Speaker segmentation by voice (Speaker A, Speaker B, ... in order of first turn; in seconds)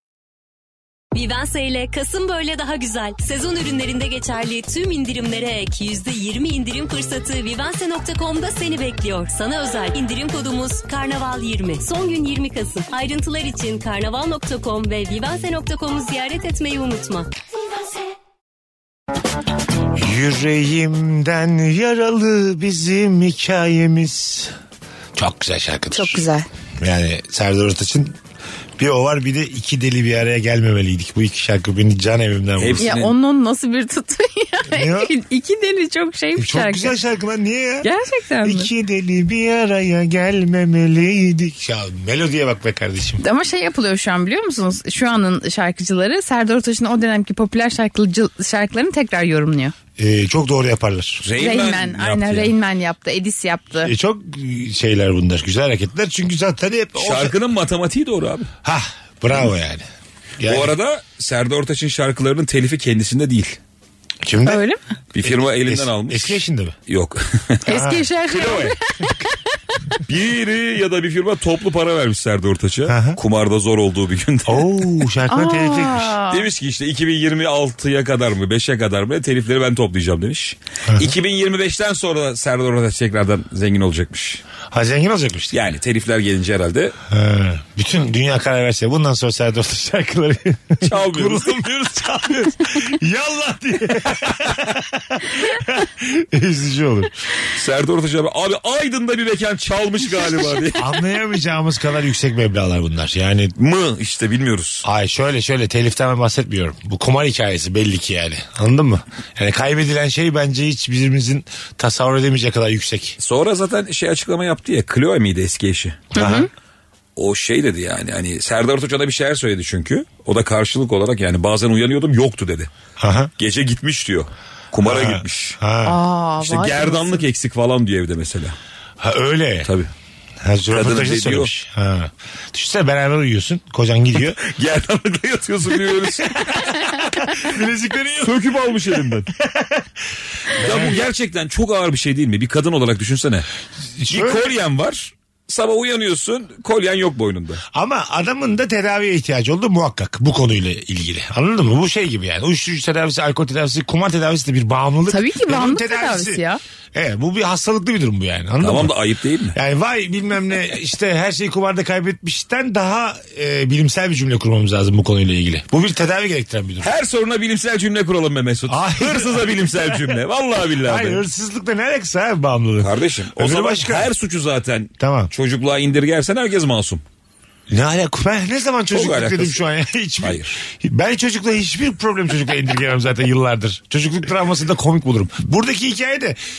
Speaker A: 1.1-17.3
Speaker B: 19.9-24.5, 25.1-26.2, 26.8-28.2, 28.8-32.9, 34.7-35.1, 36.4-37.9, 38.4-43.2, 50.0-51.2, 53.8-57.4, 58.6-59.9, 60.4-60.7, 64.2-64.6, 65.2-66.7, 67.7-68.0, 72.9-73.2, 74.5-76.2, 80.9-81.1, 84.7-85.5, 87.1-97.2, 100.8-103.5, 104.8-113.2, 116.1-116.5, 123.0-123.3, 124.8-126.0, 129.0-129.7, 130.4-134.4, 136.3-138.5, 139.4-139.9, 140.5-141.0, 144.0-144.5, 147.7-158.9, 159.5-166.9, 168.7-170.2, 170.8-174.1, 175.0-175.3, 177.7-186.4
Speaker C: 25.9-26.5, 32.8-36.9, 37.8-38.7, 43.2-49.7, 51.4-53.9, 64.4-64.8, 67.7-69.4, 75.3-76.5, 116.1-116.5, 125.8-127.2, 155.1-156.6
Speaker D: 32.6-33.1, 51.2-52.5, 57.0-58.5, 60.4-63.6, 65.1-67.7, 68.3-68.7, 70.0-75.0, 76.3-84.4, 85.5-86.9, 90.8-91.6, 97.5-100.9, 103.6-104.8, 113.2-116.1, 117.2-122.7, 123.4-125.6, 126.4-128.6, 129.6-129.9, 130.7-131.5, 134.2-136.7, 138.2-139.3, 140.5-143.4, 144.1-147.6, 158.6-159.6, 166.8-171.2, 172.8-177.0, 178.9-179.6, 180.2-180.6